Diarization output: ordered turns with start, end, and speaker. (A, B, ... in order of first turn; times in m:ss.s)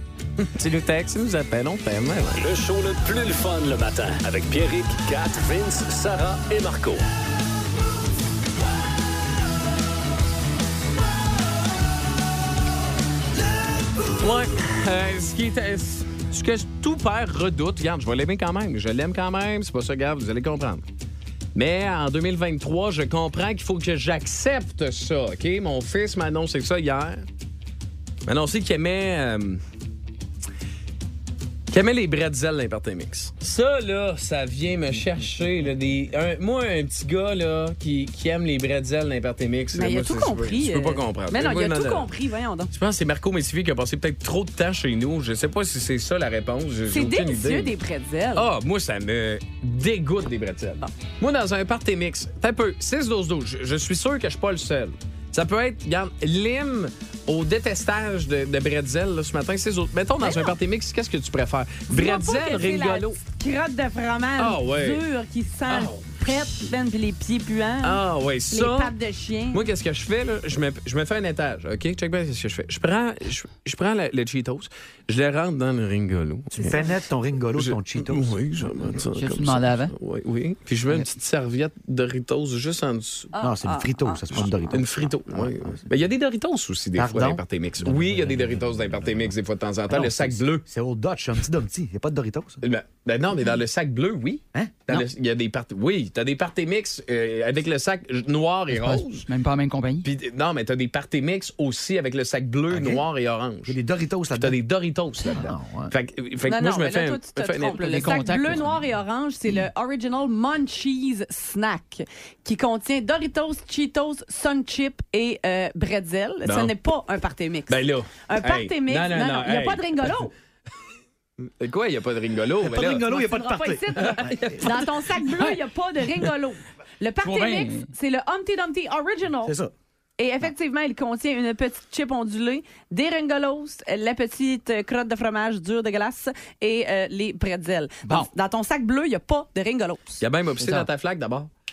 0:00.4-0:02.5 A
0:02.4-0:07.0 B
0:14.2-0:20.8 A
0:21.6-0:27.2 A
0:28.3-0:29.6 A
0:31.7-0:42.1 A
0:39.7-0:42.7 C
0:42.7-0:47.7 A
0:46.9-0:48.5 C
0:48.4-1:03.2 A
1:00.2-1:00.6 C
1:01.9-1:09.7 C
1:04.4-1:05.0 A
1:05.7-1:06.2 A
1:07.8-1:08.9 A
1:09.5-1:16.8 A
1:16.5-1:18.4 D
1:17.6-1:23.3 A
1:19.2-1:19.9 E
1:23.3-1:24.4 C
1:23.4-1:25.8 D
1:24.3-1:30.6 A
1:27.0-1:29.3 D
1:29.9-1:32.6 D
1:32.6-1:39.3 A
1:34.5-1:35.0 D
1:38.7-1:40.1 E
1:40.0-1:43.8 A
1:42.7-1:43.0 D
1:43.7-1:44.6 D
1:44.3-1:48.1 A
1:45.2-1:45.9 D
1:46.5-2:00.3 C
1:47.8-1:48.8 E
1:56.4-1:56.7 A
1:57.7-2:00.1 A
2:01.6-2:03.0 A
2:02.6-2:04.8 D
2:03.0-2:09.5 C
2:04.0-2:04.8 A
2:07.2-2:07.9 E
2:09.4-2:09.7 D
2:10.2-2:20.2 C
2:20.2-2:21.5 A
2:20.6-2:20.9 E